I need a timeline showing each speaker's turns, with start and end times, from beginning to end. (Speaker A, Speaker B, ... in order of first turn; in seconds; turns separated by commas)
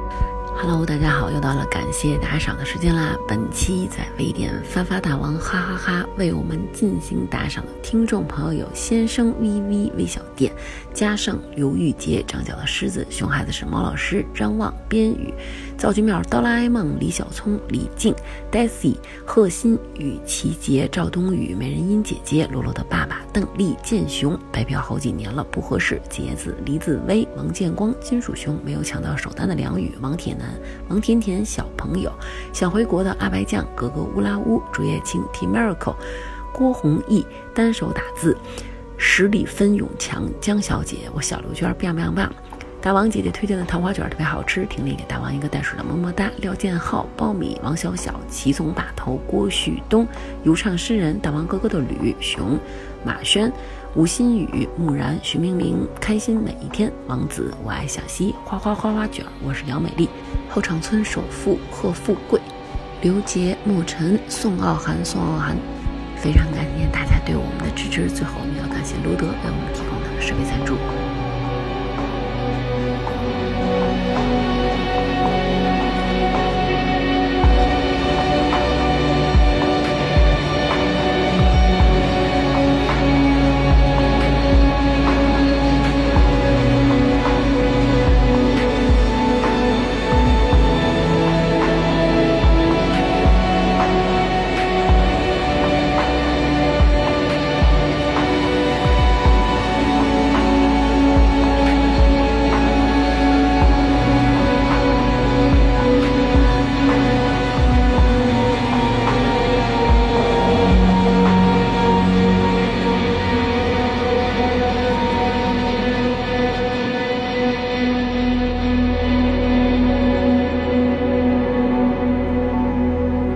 Speaker A: 0.5-38.4, Speaker A: 39.0-65.6, Speaker A: 66.2-70.9